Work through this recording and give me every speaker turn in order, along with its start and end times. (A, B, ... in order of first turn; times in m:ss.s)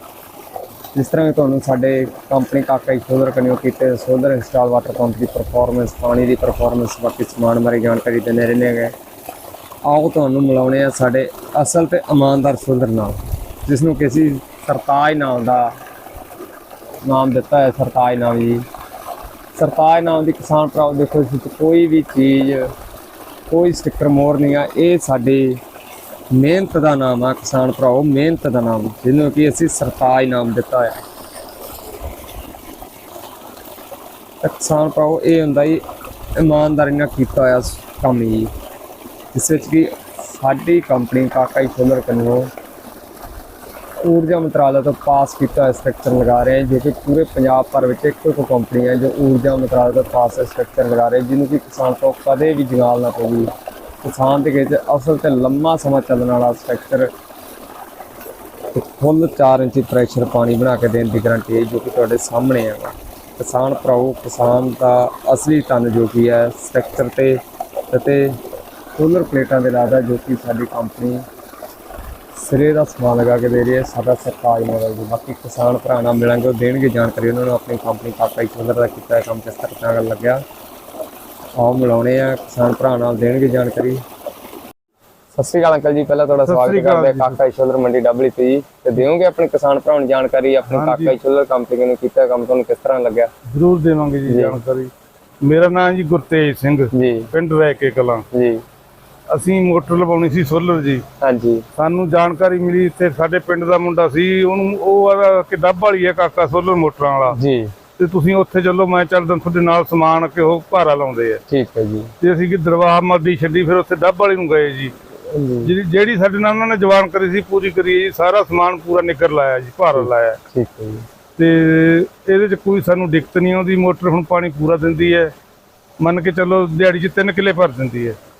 0:00.9-0:08.9 A
0:09.8-0:15.7 A
0:17.0-0:18.6 A
0:19.6-0:22.7 A
0:23.5-0:25.6 A
0:26.3-0:31.0 A
0:34.4-0:35.8 A
0:36.4-0:38.5 A
0:39.3-0:42.5 A
0:44.0-0:53.5 A
0:54.0-0:57.1 A
0:58.7-1:08.4 A
1:09.0-1:11.2 A
1:12.3-1:20.4 A
1:21.6-1:24.0 A
1:25.3-1:33.3 A
1:26.4-1:27.4 B
1:30.7-1:31.2 B
1:33.5-1:34.9 B
1:34.3-1:34.6 A
1:35.4-1:38.2 B
1:36.9-1:37.3 A
1:38.3-1:38.6 A
1:39.3-1:41.0 B
1:41.2-1:41.6 A
1:41.8-1:47.4 B
1:47.3-1:47.7 A
1:48.0-1:51.4 B
1:51.5-1:52.1 A
1:52.2-1:54.9 B
1:55.2-1:55.7 A
1:55.6-2:00.4 B
2:00.0-2:01.0 A
2:01.4-2:05.3 B
2:06.0-2:08.2 B